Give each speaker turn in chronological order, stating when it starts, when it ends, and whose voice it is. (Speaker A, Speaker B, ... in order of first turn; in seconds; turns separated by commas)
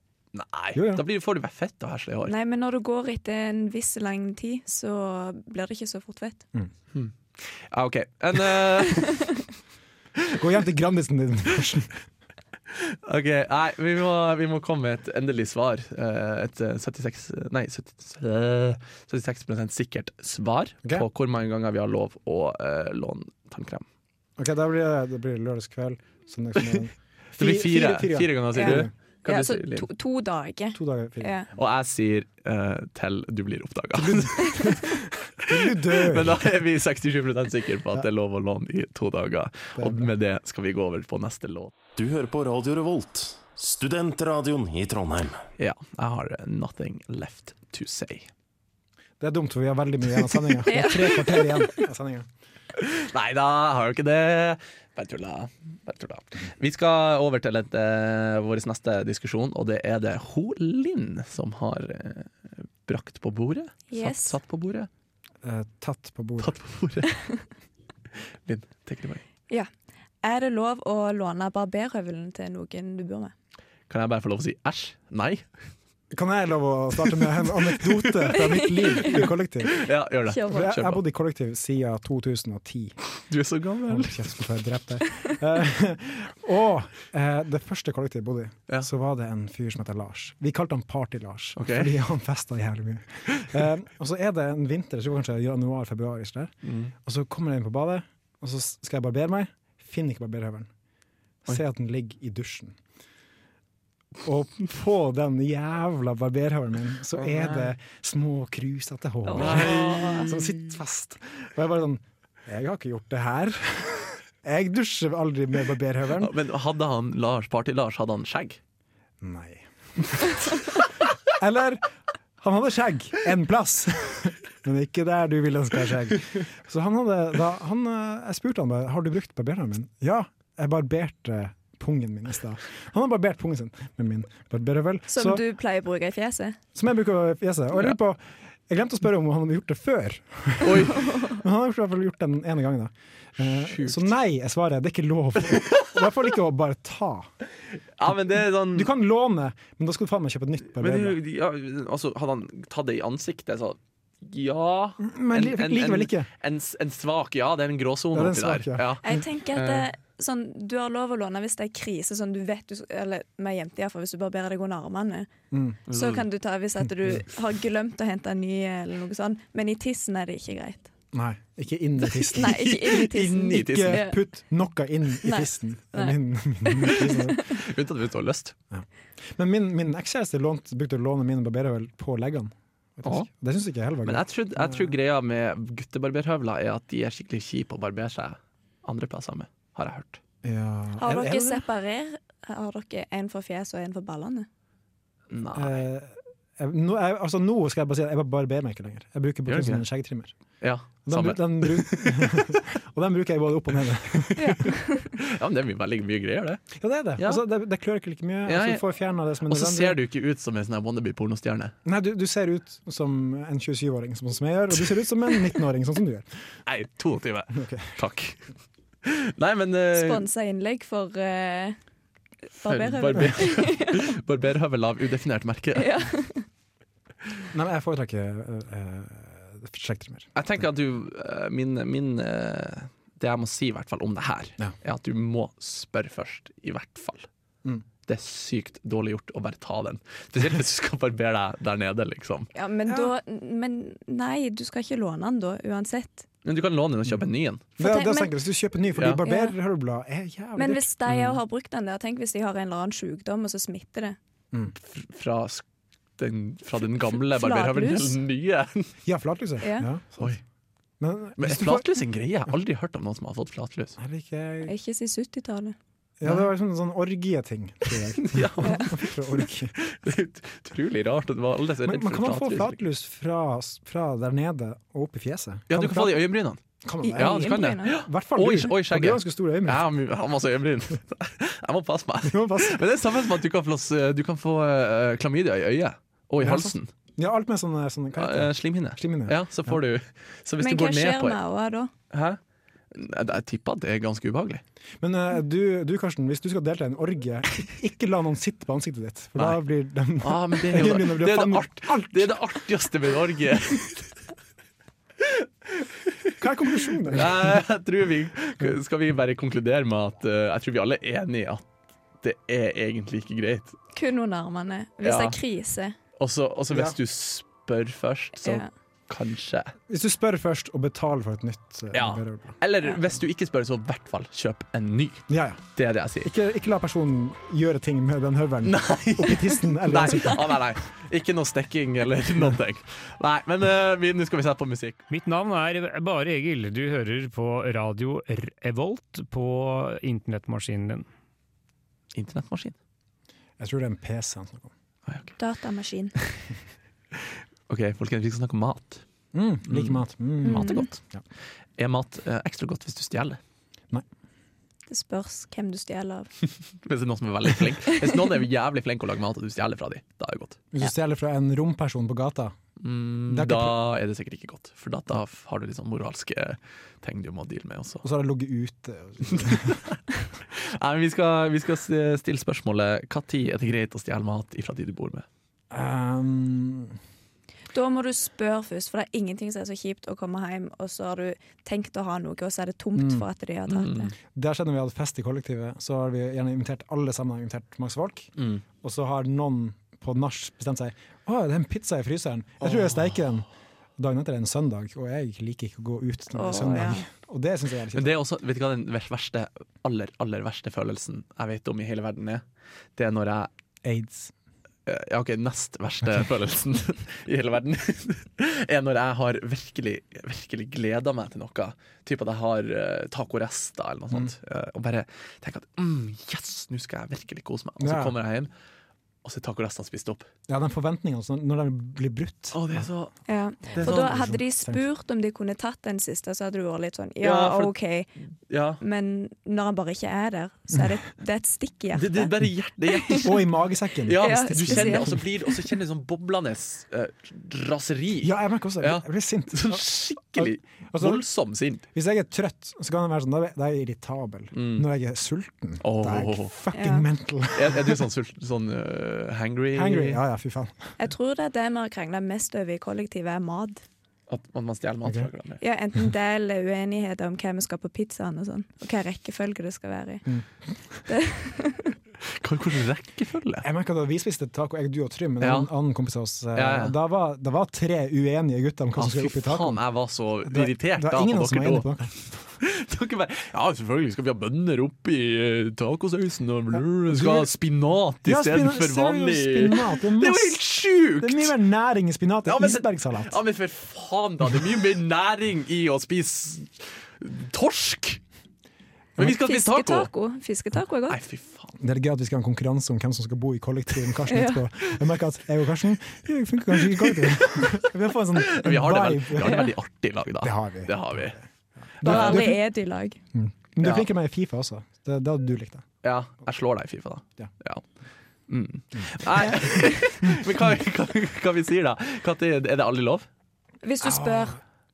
Speaker A: 0.3-2.4, Speaker B: 0.7-1.1, Speaker C: 2.2-6.4, Speaker A: 6.9-9.4, Speaker C: 9.1-9.3, Speaker B: 10.3-12.0, Speaker A: 12.7-23.9, Speaker B: 24.4-28.9, Speaker A: 26.6-26.8, Speaker A: 27.4-29.9, Speaker C: 28.5-31.5, Speaker B: 30.8-31.3, Speaker A: 31.5-41.7, Speaker B: 34.0-36.5, Speaker B: 39.8-40.1, Speaker D: 42.0-45.4, Speaker A: 45.6-48.3, Speaker B: 49.2-52.3, Speaker C: 50.7-51.8, Speaker A: 52.8-62.3, Speaker A: 62.9-64.9, Speaker C: 63.9-64.4, Speaker B: 65.4-66.5, Speaker A: 66.4-67.1, Speaker A: 68.5-69.2, Speaker C: 70.2-73.3, Speaker A: 73.9-75.5, Speaker B: 76.1-79.9, Speaker A: 77.1-81.0, Speaker C: 80.3-80.6, Speaker B: 80.4-83.0, Speaker A: 83.3-84.4, Speaker B: 83.9-100.7, Speaker A: 91.6-91.9, Speaker A: 96.6-96.9, Speaker B: 101.5-102.8, Speaker B: 104.2-116.3, Speaker A: 107.2-107.7, Speaker C: 109.3-110.3, Speaker A: 109.3-110.7, Speaker A: 116.2-118.6, Speaker B: 119.2-135.4, Speaker C: 135.1-136.6, Speaker B: 136.8-147.3, Speaker A: 140.6-141.1, Speaker A: 143.4-144.1, Speaker A: 148.0-148.9, Speaker B: 148.1-151.2, Speaker A: 150.7-159.9, Speaker B: 155.0-156.3, Speaker B: 158.1-159.2, Speaker C: 159.0-165.3, Speaker B: 165.5-165.8, Speaker A: 165.9-166.3, Speaker C: 165.9-170.9, Speaker B: 171.1-177.4, Speaker A: 172.2-174.1, Speaker C: 172.3-174.2, Speaker C: 175.2-177.6, Speaker A: 177.4-178.6, Speaker B: 178.7-185.0, Speaker A: 183.0-183.3, Speaker A: 184.0-190.2, Speaker B: 190.4-191.7, Speaker C: 191.0-194.5, Speaker A: 195.3-195.8, Speaker B: 195.6-200.3, Speaker A: 199.5-199.8, Speaker A: 200.6-202.6, Speaker B: 201.1-204.6, Speaker C: 204.4-205.1, Speaker A: 204.5-206.6, Speaker B: 206.8-210.0, Speaker A: 207.2-207.4, Speaker A: 208.5-208.8, Speaker A: 209.5-211.7, Speaker B: 211.8-216.3, Speaker A: 216.7-218.4, Speaker B: 217.5-217.9, Speaker A: 219.1-220.3, Speaker C: 219.9-221.8, Speaker C: 222.6-224.1, Speaker A: 222.6-226.1, Speaker C: 225.8-226.4, Speaker B: 227.5-230.2, Speaker A: 230.3-237.3, Speaker A: 238.1-242.5, Speaker C: 242.5-246.3, Speaker A: 246.4-247.7, Speaker B: 247.8-250.9, Speaker C: 247.8-248.3, Speaker A: 249.0-249.2, Speaker C: 249.2-249.5, Speaker C: 250.6-254.2, Speaker A: 251.1-251.4, Speaker A: 254.8-255.6, Speaker A: 256.2-258.9, Speaker C: 257.3-258.2, Speaker B: 259.1-260.4, Speaker C: 259.6-259.9, Speaker B: 261.0-261.9, Speaker A: 261.4-264.0, Speaker B: 264.0-264.7, Speaker C: 264.6-265.8, Speaker B: 266.2-269.8, Speaker A: 268.1-272.8, Speaker C: 268.6-268.9, Speaker B: 271.8-276.3, Speaker A: 275.7-276.6, Speaker B: 276.8-279.9, Speaker C: 277.0-278.0, Speaker A: 277.2-286.9, Speaker B: 282.2-282.8, Speaker B: 286.4-289.8, Speaker A: 288.2-291.4, Speaker C: 290.6-291.9, Speaker A: 292.1-292.4, Speaker A: 292.9-294.6, Speaker B: 295.0-302.4, Speaker A: 300.2-304.1, Speaker A: 305.2-306.3, Speaker B: 306.4-307.6, Speaker A: 307.1-311.6, Speaker A: 312.2-313.8, Speaker C: 313.9-315.9, Speaker A: 315.0-315.4, Speaker A: 316.2-319.7, Speaker B: 316.7-317.0, Speaker C: 318.4-318.7, Speaker B: 319.9-322.6, Speaker A: 321.9-326.3, Speaker B: 325.3-325.6, Speaker B: 326.2-330.7, Speaker A: 328.6-335.0, Speaker E: 335.1-341.1, Speaker A: 342.1-342.8, Speaker B: 343.6-344.7, Speaker A: 345.1-345.3, Speaker C: 345.4-346.2, Speaker A: 347.1-349.0, Speaker B: 349.3-351.2, Speaker A: 349.7-351.0, Speaker C: 350.4-350.9, Speaker A: 351.8-353.4, Speaker C: 354.9-356.3, Speaker A: 356.8-360.6, Speaker B: 360.7-362.6, Speaker A: 362.8-368.0, Speaker B: 363.3-363.8, Speaker B: 368.0-369.8, Speaker A: 369.3-370.0, Speaker A: 370.5-375.3, Speaker B: 375.7-377.0, Speaker C: 377.7-384.1, Speaker B: 382.9-383.2, Speaker A: 383.7-384.1, Speaker B: 384.3-393.5, Speaker A: 388.4-388.6, Speaker A: 392.6-393.2, Speaker B: 394.0-398.1, Speaker C: 396.4-397.1, Speaker A: 397.9-402.4, Speaker A: 403.0-403.5, Speaker B: 403.9-404.3, Speaker A: 404.9-418.5, Speaker B: 417.8-418.1, Speaker A: 419.2-420.3, Speaker B: 420.5-422.9, Speaker A: 422.5-423.1, Speaker C: 423.3-428.1, Speaker B: 423.7-424.8, Speaker A: 423.7-424.2, Speaker A: 427.2-427.7, Speaker A: 428.5-428.8, Speaker C: 428.8-432.3, Speaker A: 431.9-433.5, Speaker C: 432.9-433.3, Speaker B: 433.2-435.2, Speaker A: 434.0-441.8, Speaker C: 434.2-435.5, Speaker B: 438.2-441.2, Speaker B: 441.9-448.1, Speaker A: 444.5-444.9, Speaker A: 445.8-446.5, Speaker C: 446.7-447.1, Speaker A: 447.5-450.2, Speaker B: 449.7-450.9, Speaker C: 451.0-453.8, Speaker A: 454.3-455.6, Speaker B: 455.0-455.3, Speaker C: 455.6-460.3, Speaker C: 461.1-461.9, Speaker A: 462.4-463.6, Speaker B: 463.6-469.8, Speaker A: 465.4-465.7, Speaker A: 466.6-466.9, Speaker A: 469.0-471.9, Speaker B: 470.5-472.2, Speaker A: 472.6-481.6, Speaker B: 476.7-477.5, Speaker B: 478.2-480.6, Speaker B: 481.2-483.4, Speaker A: 482.5-488.2, Speaker A: 489.2-490.1, Speaker C: 489.2-491.2, Speaker A: 491.1-491.8, Speaker B: 491.8-499.7, Speaker C: 494.3-494.6, Speaker A: 496.8-497.8, Speaker A: 498.4-501.4, Speaker C: 499.4-499.7, Speaker B: 500.4-501.4, Speaker B: 502.0-502.6, Speaker A: 502.0-502.5, Speaker C: 502.0-503.2, Speaker B: 503.3-505.9, Speaker A: 503.8-504.1, Speaker A: 506.0-507.8, Speaker A: 508.5-513.3, Speaker C: 513.8-514.6, Speaker B: 514.0-514.6